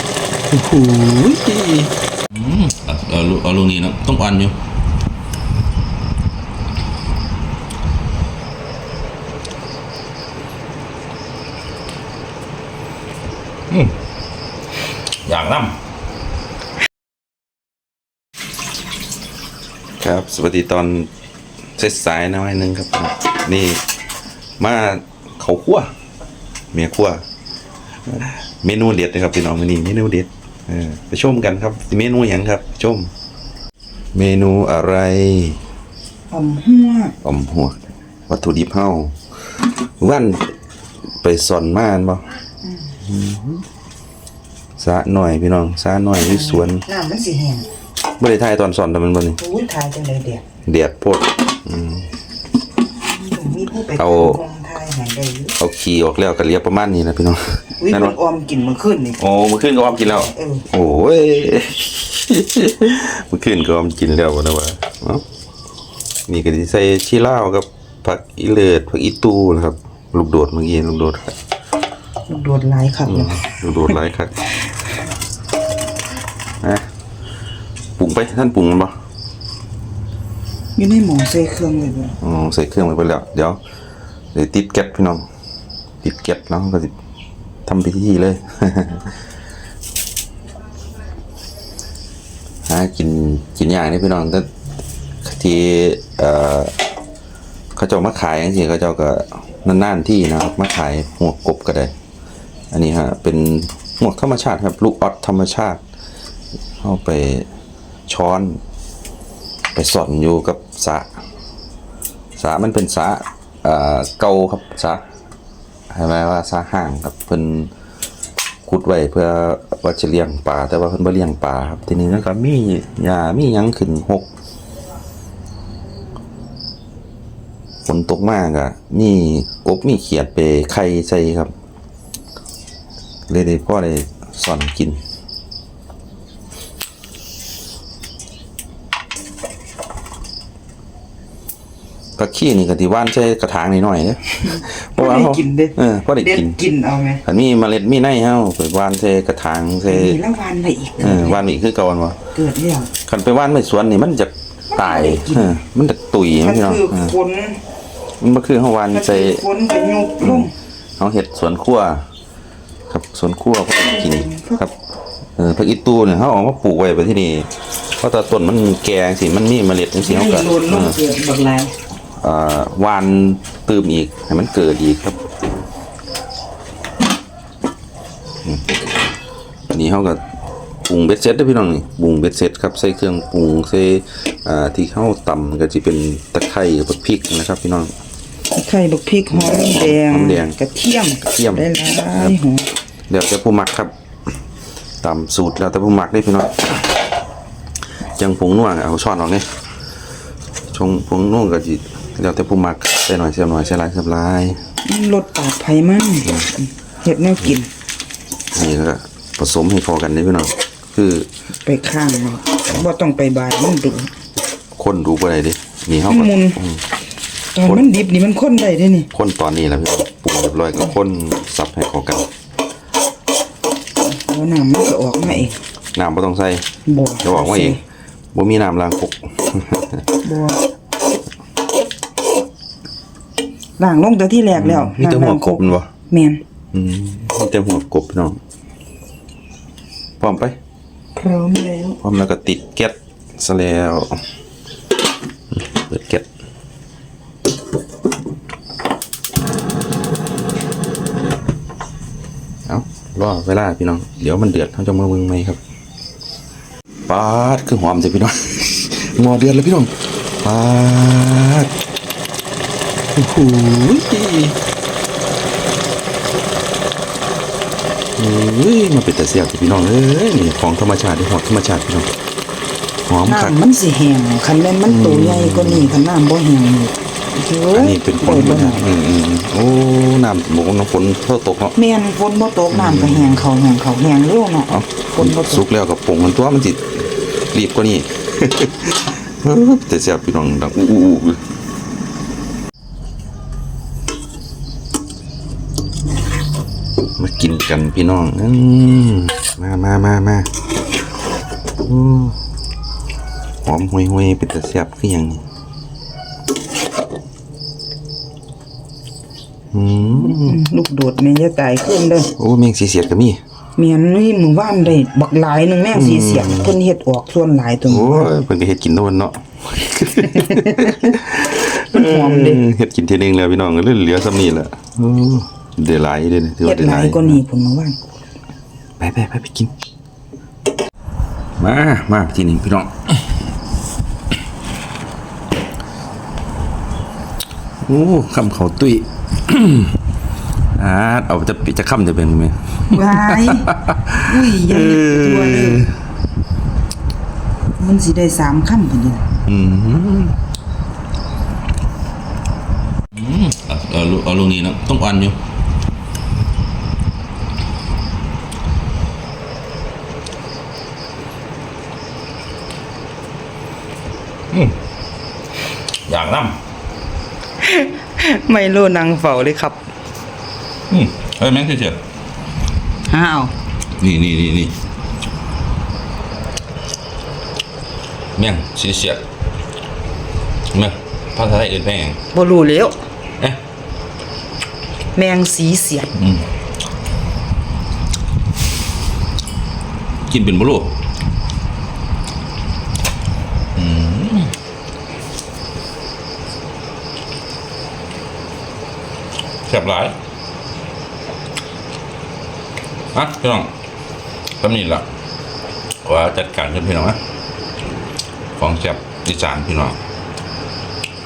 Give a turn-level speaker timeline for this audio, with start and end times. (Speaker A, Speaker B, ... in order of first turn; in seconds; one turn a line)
Speaker A: 0.5-4.6
Speaker A: 15.2-15.8
Speaker A: 20.0-21.1
Speaker A: 21.8-23.8
Speaker A: 24.6-25.9
Speaker A: 26.7-27.2
Speaker A: 28.1-33.1
Speaker A: 34.1-35.6
Speaker B: 36.3-37.1
Speaker A: 37.2-39.2
Speaker A: 40.0-40.5
Speaker A: 41.2-42.4
Speaker A: 43.0-43.6
Speaker A: 44.8-46.8
Speaker B: 46.2-47.7
Speaker A: 48.2-49.4
Speaker B: 49.4-50.4
Speaker A: 50.6-52.1
Speaker B: 53.0-55.5
Speaker A: 54.0-54.4
Speaker A: 55.6-58.1
Speaker B: 57.8-59.2
Speaker A: 59.2-65.2
Speaker B: 60.2-60.6
Speaker A: 66.3-71.3
Speaker B: 72.3-73.4
Speaker A: 73.1-74.4
Speaker A: 78.0-78.9
Speaker B: 80.8-82.2
Speaker A: 82.2-83.6
Speaker A: 84.3-85.2
Speaker A: 86.0-86.9
Speaker A: 87.7-89.1
Speaker A: 92.7-94.5
Speaker A: 95.2-96.8
Speaker A: 97.7-101.9
Speaker A: 102.7-105.8
Speaker A: 106.8-107.5
Speaker A: 108.1-108.6
Speaker A: 109.7-111.1
Speaker A: 112.4-115.0
Speaker A: 115.9-117.7
Speaker A: 118.6-124.3
Speaker A: 127.8-131.5
Speaker A: 133.3-135.0
Speaker A: 142.2-146.6
Speaker B: 144.4-147.2
Speaker A: 147.2-150.2
Speaker B: 149.8-151.4
Speaker A: 151.0-152.2
Speaker B: 152.3-152.9
Speaker A: 153.0-157.1
Speaker B: 154.7-155.6
Speaker B: 156.4-157.6
Speaker A: 158.2-159.4
Speaker B: 158.9-160.5
Speaker A: 160.2-162.1
Speaker A: 162.9-164.7
Speaker B: 163.8-164.6
Speaker A: 165.4-171.0
Speaker B: 170.0-171.8
Speaker A: 172.2-175.2
Speaker A: 179.7-180.2
Speaker A: 180.8-187.9
Speaker B: 188.5-192.7
Speaker A: 189.3-190.6
Speaker A: 191.2-192.4
Speaker A: 193.1-193.9
Speaker A: 195.0-196.8
Speaker A: 198.2-199.5
Speaker A: 200.7-204.6
Speaker B: 204.8-207.7
Speaker A: 208.5-211.3
Speaker B: 211.7-214.1
Speaker A: 214.8-216.8
Speaker B: 216.1-216.6
Speaker B: 217.5-219.1
Speaker A: 219.1-222.3
Speaker B: 224.0-225.6
Speaker A: 225.9-226.7
Speaker B: 226.8-227.8
Speaker A: 227.2-227.8
Speaker A: 228.3-230.0
Speaker B: 230.2-230.6
Speaker B: 233.8-236.4
Speaker A: 234.5-235.9
Speaker A: 236.7-238.4
Speaker A: 240.2-240.6
Speaker B: 241.2-242.0
Speaker A: 242.0-244.2
Speaker A: 245.5-246.2
Speaker A: 252.7-255.6
Speaker A: 257.1-261.7
Speaker A: 263.1-264.6
Speaker A: 268.2-272.1
Speaker A: 273.1-273.6
Speaker B: 273.2-278.9
Speaker A: 274.9-275.9
Speaker A: 277.7-281.8
Speaker B: 281.8-285.6
Speaker A: 282.7-283.4
Speaker A: 284.7-291.4
Speaker A: 297.2-300.5
Speaker A: 301.8-302.4
Speaker A: 303.6-305.4
Speaker A: 309.7-310.6
Speaker B: 310.2-312.3
Speaker A: 312.4-313.4
Speaker B: 313.8-318.3
Speaker A: 315.9-316.7
Speaker A: 317.9-327.4
Speaker B: 320.3-321.1
Speaker B: 321.9-322.6
Speaker B: 326.6-328.0
Speaker A: 329.0-329.7
Speaker A: 331.6-333.2
Speaker A: 337.8-340.0
Speaker A: 340.7-346.0
Speaker B: 342.9-345.9
Speaker B: 347.8-349.3
Speaker A: 349.4-350.4
Speaker A: 353.1-355.4
Speaker A: 366.1-366.6
Speaker B: 367.6-369.8
Speaker A: 370.9-372.0
Speaker B: 373.1-373.5
Speaker A: 374.0-374.7
Speaker A: 378.4-379.2
Speaker A: 380.7-382.2
Speaker B: 382.3-383.0
Speaker B: 385.1-386.1
Speaker A: 386.1-386.4
Speaker A: 390.3-390.9
Speaker A: 393.8-394.5
Speaker A: 399.7-400.1
Speaker A: 403.1-403.7
Speaker A: 404.6-405.1
Speaker A: 406.0-407.2
Speaker A: 408.6-410.0